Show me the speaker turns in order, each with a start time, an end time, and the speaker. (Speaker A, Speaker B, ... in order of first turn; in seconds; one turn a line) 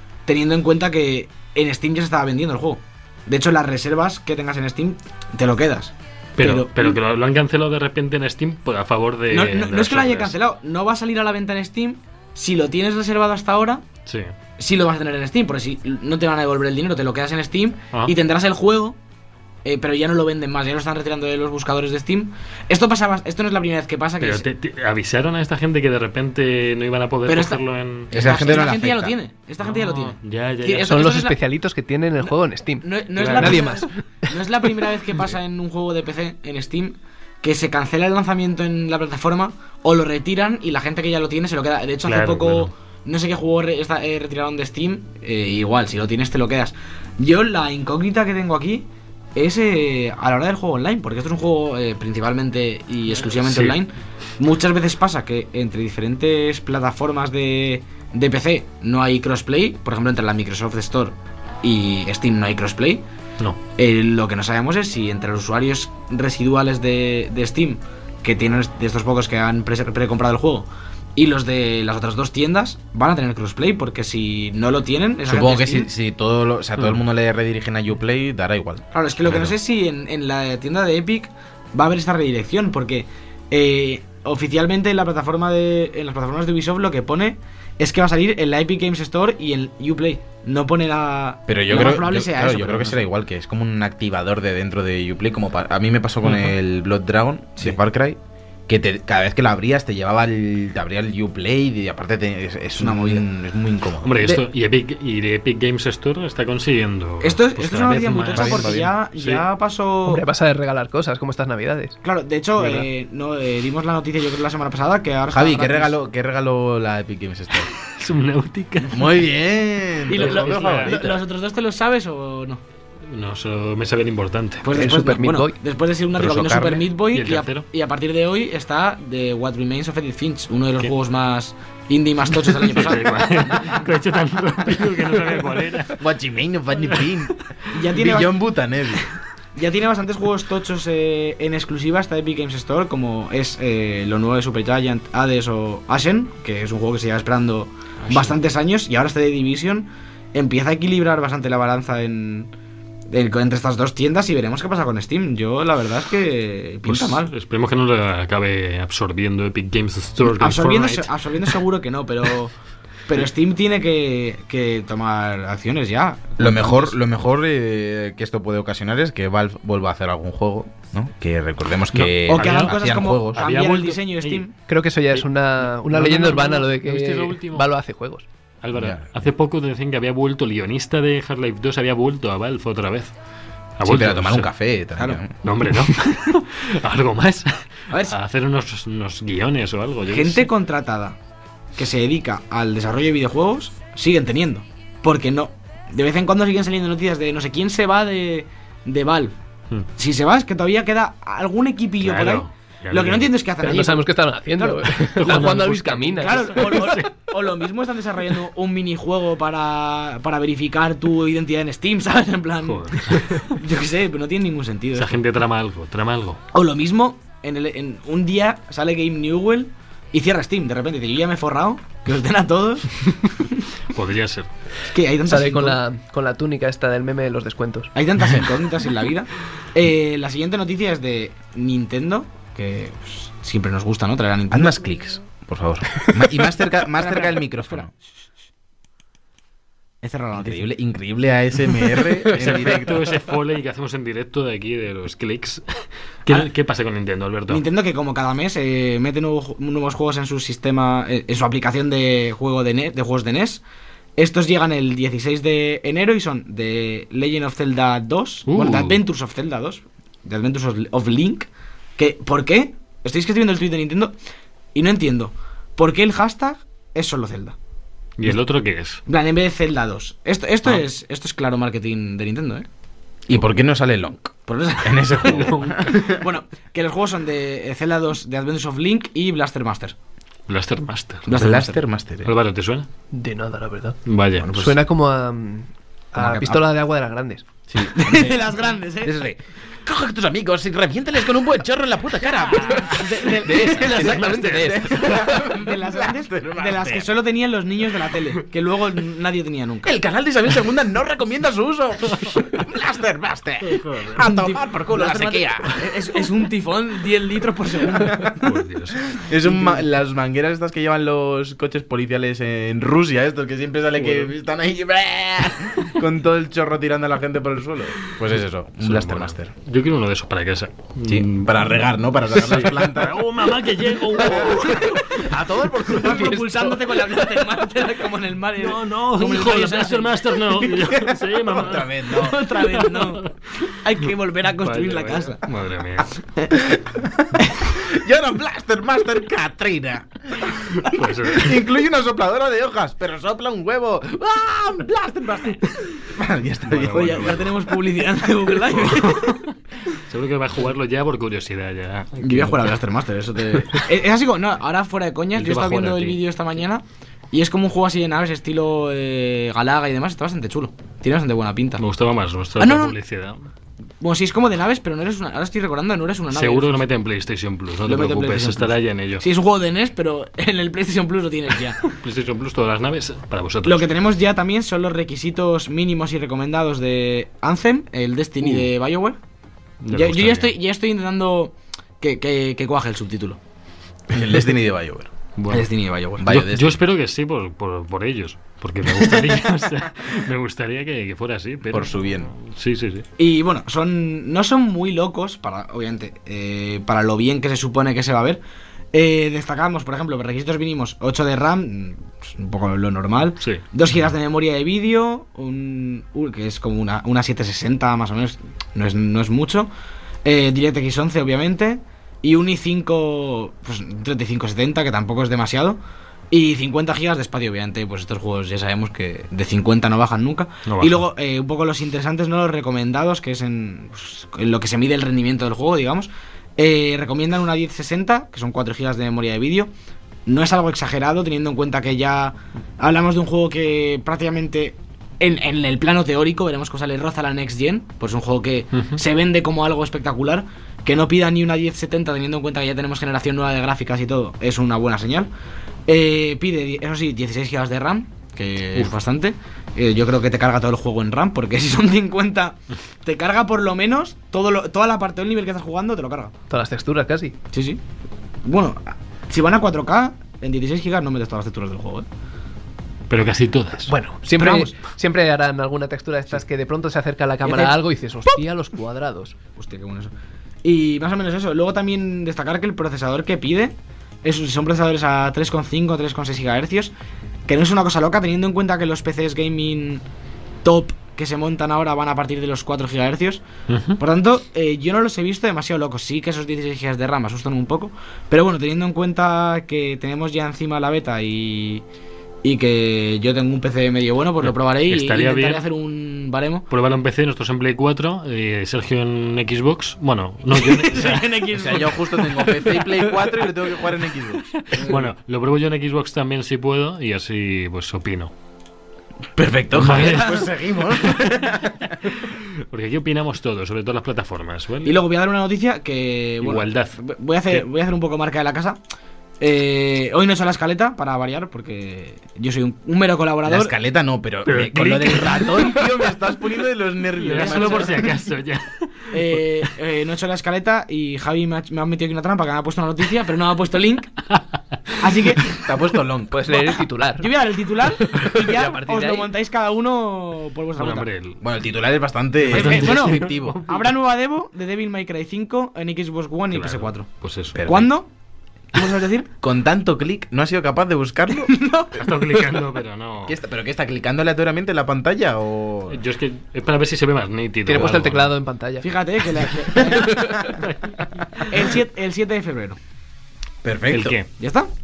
Speaker A: 0.3-7.0
Speaker B: 6.4-10.3
Speaker A: 9.3-13.8
Speaker B: 14.1-14.3
Speaker A: 14.6-19.0
Speaker A: 19.6-24.5
Speaker B: 24.2-28.5
Speaker A: 27.3-31.4
Speaker C: 28.1-29.2
Speaker B: 29.6-31.1
Speaker D: 30.9-34.0
Speaker A: 32.8-63.0
Speaker B: 33.2-33.6
Speaker B: 42.1-42.7
Speaker B: 53.3-53.8
Speaker A: 63.8-75.9
Speaker C: 75.3-79.6
Speaker A: 78.9-93.0
Speaker C: 91.5-104.4
Speaker B: 96.2-96.5
Speaker A: 102.8-103.3
Speaker B: 104.0-109.4
Speaker A: 107.2-110.2
Speaker C: 108.3-108.9
Speaker D: 110.1-112.0
Speaker A: 112.0-115.9
Speaker B: 112.6-112.9
Speaker C: 115.3-117.7
Speaker B: 117.8-119.0
Speaker C: 118.9-121.2
Speaker A: 120.1-122.6
Speaker B: 120.1-121.0
Speaker B: 123.1-124.7
Speaker A: 124.6-133.7
Speaker D: 124.7-125.5
Speaker C: 126.2-126.9
Speaker B: 127.1-127.7
Speaker B: 132.5-136.0
Speaker C: 136.0-137.4
Speaker A: 137.7-138.4
Speaker C: 137.9-139.1
Speaker A: 139.6-152.5
Speaker B: 148.0-148.3
Speaker A: 153.1-157.3
Speaker B: 156.9-161.1
Speaker A: 160.2-162.6
Speaker A: 163.1-167.0
Speaker C: 166.4-173.5
Speaker B: 171.9-174.4
Speaker A: 172.3-174.5
Speaker D: 174.7-178.2
Speaker B: 175.1-177.7
Speaker B: 178.6-183.1
Speaker C: 178.8-179.1
Speaker B: 183.8-184.5
Speaker C: 183.8-185.3
Speaker B: 185.4-190.5
Speaker A: 190.1-191.2
Speaker A: 191.8-199.3
Speaker A: 200.0-205.7
Speaker B: 202.0-203.3
Speaker D: 203.6-206.9
Speaker B: 205.0-207.1
Speaker A: 206.2-215.1
Speaker B: 212.6-213.6
Speaker B: 214.9-216.4
Speaker A: 216.5-223.7
Speaker B: 223.9-224.5
Speaker A: 224.9-225.8
Speaker D: 225.3-227.9
Speaker A: 227.9-234.8
Speaker C: 234.5-237.9
Speaker A: 236.9-237.9
Speaker A: 240.0-240.7
Speaker C: 240.4-243.1
Speaker B: 242.3-247.6
Speaker A: 247.5-253.6
Speaker A: 254.2-264.1
Speaker B: 258.5-259.0
Speaker A: 264.8-267.6
Speaker B: 268.2-269.0
Speaker A: 269.1-272.7
Speaker C: 273.3-276.2
Speaker A: 274.5-279.9
Speaker B: 275.2-276.0
Speaker B: 280.5-281.3
Speaker A: 281.3-281.8
Speaker C: 281.3-282.3
Speaker B: 282.2-282.9
Speaker D: 283.1-287.5
Speaker B: 284.1-284.7
Speaker C: 286.2-286.6
Speaker C: 287.7-288.5
Speaker A: 287.9-289.2
Speaker C: 289.0-297.1
Speaker B: 292.5-293.1
Speaker A: 292.5-294.3
Speaker D: 293.5-295.2
Speaker B: 293.8-295.2
Speaker A: 295.4-299.9
Speaker C: 299.8-305.9
Speaker B: 303.6-304.2
Speaker A: 304.2-308.4
Speaker C: 308.0-308.4
Speaker B: 308.4-309.0
Speaker C: 309.2-319.5
Speaker A: 309.4-309.8
Speaker B: 314.0-314.3
Speaker B: 318.8-321.8
Speaker C: 321.1-323.2
Speaker B: 322.3-325.3
Speaker C: 324.2-326.8
Speaker A: 324.5-330.8
Speaker B: 328.6-333.8
Speaker C: 330.9-332.4
Speaker A: 332.1-335.4
Speaker B: 334.6-336.1
Speaker A: 336.2-336.7
Speaker C: 336.9-347.5
Speaker B: 340.8-341.6
Speaker B: 346.7-347.5
Speaker A: 346.7-349.4
Speaker B: 348.7-352.7
Speaker A: 352.2-361.8
Speaker B: 355.4-356.2
Speaker B: 361.8-363.5
Speaker A: 362.6-363.0
Speaker A: 364.0-366.8
Speaker B: 366.3-369.2
Speaker A: 367.9-371.9
Speaker B: 371.8-373.9
Speaker A: 373.6-379.2
Speaker B: 378.4-378.7
Speaker B: 379.8-380.5
Speaker A: 379.9-383.4
Speaker C: 384.1-385.1
Speaker B: 385.4-385.7
Speaker A: 385.5-386.3
Speaker C: 386.2-386.8
Speaker B: 386.2-393.1
Speaker C: 391.7-392.3
Speaker A: 393.2-398.4
Speaker A: 398.9-409.7
Speaker A: 410.2-415.8
Speaker A: 416.3-429.7
Speaker B: 420.7-421.0
Speaker A: 430.3-445.3
Speaker A: 445.9-456.4
Speaker D: 456.5-457.4
Speaker A: 457.5-457.8
Speaker A: 458.4-462.1
Speaker B: 463.1-463.9
Speaker D: 463.9-469.4
Speaker A: 464.4-464.7
Speaker A: 467.4-467.8
Speaker A: 469.6-470.1
Speaker A: 470.6-476.9
Speaker A: 477.5-480.0
Speaker A: 480.6-483.4
Speaker B: 483.7-484.0
Speaker A: 484.0-491.8
Speaker A: 492.4-496.7
Speaker B: 494.4-495.6
Speaker B: 496.7-501.4
Speaker A: 500.5-503.3
Speaker C: 501.5-504.5
Speaker B: 504.5-508.3
Speaker C: 509.4-512.0
Speaker B: 509.7-510.5
Speaker A: 509.9-510.4
Speaker B: 511.0-515.0
Speaker A: 514.9-518.8
Speaker B: 516.4-517.6
Speaker A: 519.4-523.7
Speaker C: 523.5-528.1
Speaker B: 524.5-525.8
Speaker B: 527.2-529.4
Speaker A: 527.4-528.1
Speaker A: 529.1-534.1
Speaker B: 534.3-535.0
Speaker A: 535.0-535.6
Speaker C: 535.6-536.5
Speaker D: 536.3-537.3
Speaker A: 536.5-541.1
Speaker D: 538.1-539.3
Speaker B: 540.8-541.4
Speaker C: 541.4-543.6
Speaker B: 542.5-543.9
Speaker A: 542.5-547.1
Speaker B: 546.5-547.6
Speaker C: 547.5-547.9
Speaker A: 547.6-548.1
Speaker A: 548.7-549.3
Speaker C: 549.4-551.5
Speaker A: 551.5-552.5
Speaker B: 551.9-553.4
Speaker C: 553.3-556.0
Speaker B: 555.9-558.4
Speaker D: 557.7-558.9
Speaker A: 558.8-560.6
Speaker D: 559.7-560.5
Speaker B: 560.6-561.6
Speaker A: 561.5-562.8
Speaker C: 563.6-564.2
Speaker B: 563.9-564.3
Speaker A: 564.4-564.7